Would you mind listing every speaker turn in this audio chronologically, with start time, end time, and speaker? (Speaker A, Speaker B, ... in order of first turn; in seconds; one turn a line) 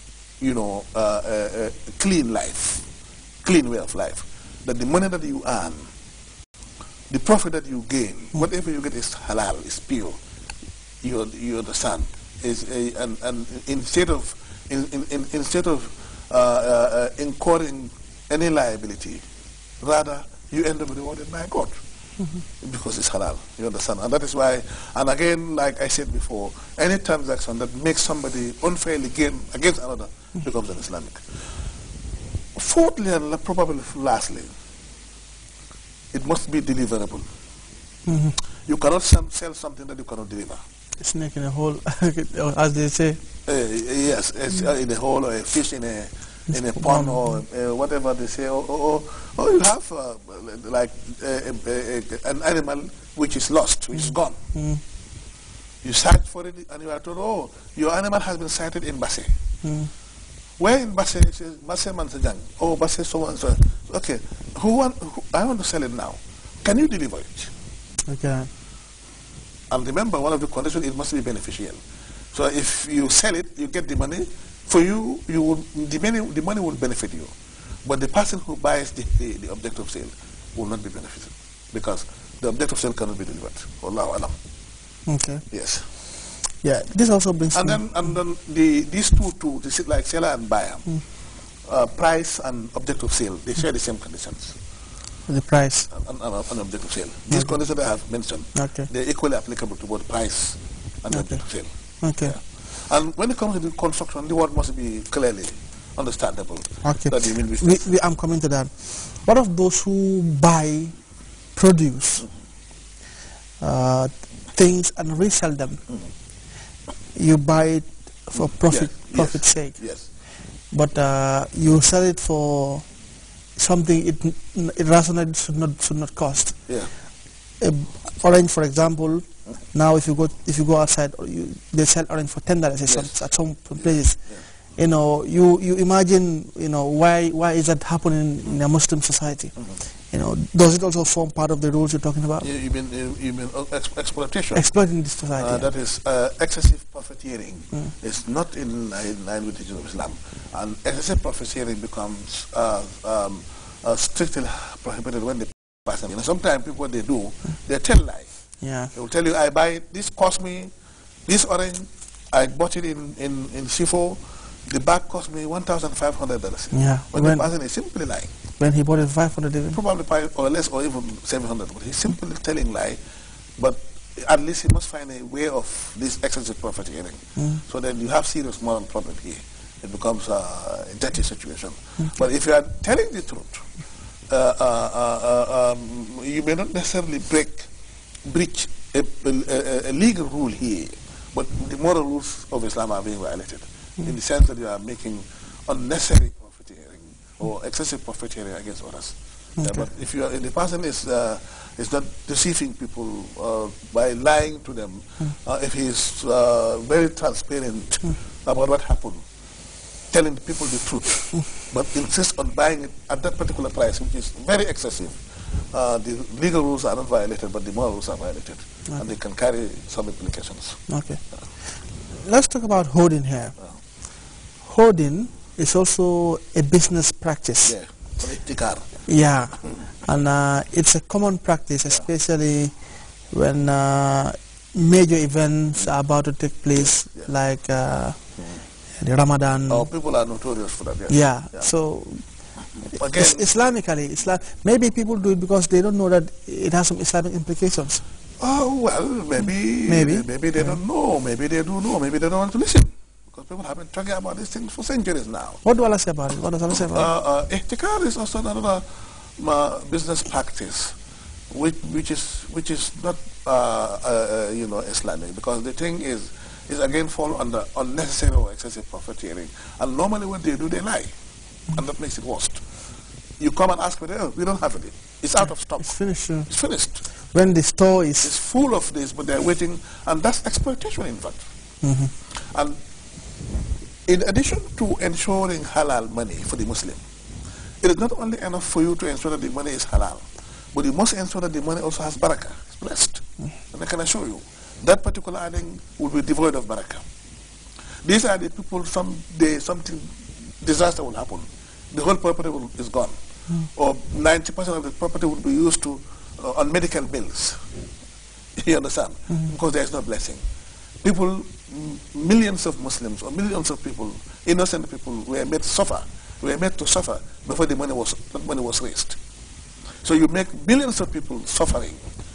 Speaker A: 0.4-2.9
Speaker A: 3.4-5.9
Speaker A: 7.1-10.2
Speaker A: 11.0-19.2
Speaker A: 19.8-21.8
Speaker A: 22.6-31.2
Speaker A: 32.5-34.5
Speaker A: 36.1-37.3
Speaker B: 38.1-38.4
Speaker A: 38.5-40.6
Speaker B: 41.0-43.2
Speaker A: 43.5-54.4
Speaker B: 46.5-47.3
Speaker B: 54.5-54.8
Speaker A: 55.8-59.3
Speaker B: 59.6-59.9
Speaker A: 60.6-67.5
Speaker B: 68.1-68.5
Speaker A: 69.7-71.8
Speaker A: 72.3-77.3
Speaker A: 77.8-84.3
Speaker B: 85.1-85.4
Speaker A: 85.5-85.9
Speaker B: 86.6-87.8
Speaker A: 87.5-90.9
Speaker A: 91.7-94.6
Speaker B: 95.3-95.9
Speaker A: 95.9-107.9
Speaker B: 97.3-97.6
Speaker B: 98.5-98.9
Speaker B: 101.1-101.4
Speaker B: 102.0-102.4
Speaker B: 106.8-111.0
Speaker B: 111.5-112.3
Speaker B: 113.6-115.8
Speaker B: 117.2-120.0
Speaker A: 118.7-120.1
Speaker B: 120.7-122.9
Speaker B: 123.6-126.6
Speaker B: 127.6-142.5
Speaker A: 132.9-134.5
Speaker A: 142.4-144.7
Speaker B: 144.5-145.7
Speaker A: 145.4-158.3
Speaker B: 158.6-158.9
Speaker A: 158.9-160.7
Speaker A: 161.3-168.3
Speaker B: 166.7-167.5
Speaker B: 168.6-169.8
Speaker A: 169.7-173.0
Speaker A: 173.6-183.7
Speaker A: 184.3-187.7
Speaker A: 188.2-209.2
Speaker B: 199.6-199.8
Speaker A: 210.1-215.2
Speaker A: 215.7-220.8
Speaker B: 220.9-221.2
Speaker B: 222.2-223.6
Speaker B: 224.6-227.8
Speaker A: 227.7-229.0
Speaker B: 229.1-232.8
Speaker B: 233.3-238.2
Speaker A: 236.8-237.3
Speaker B: 239.0-239.9
Speaker A: 239.7-241.7
Speaker B: 241.1-242.2
Speaker A: 242.9-243.5
Speaker B: 242.9-248.0
Speaker A: 248.4-255.6
Speaker B: 249.9-250.8
Speaker B: 255.7-257.1
Speaker A: 256.7-258.9
Speaker A: 259.4-261.0
Speaker A: 261.5-271.1
Speaker A: 271.7-272.6
Speaker A: 273.4-277.0
Speaker B: 275.8-276.5
Speaker B: 277.3-278.3
Speaker A: 278.2-281.5
Speaker B: 281.8-282.1
Speaker A: 282.3-282.8
Speaker A: 284.1-287.0
Speaker A: 287.8-297.0
Speaker A: 298.0-307.7
Speaker A: 308.6-310.4
Speaker A: 311.0-319.2
Speaker A: 320.0-322.0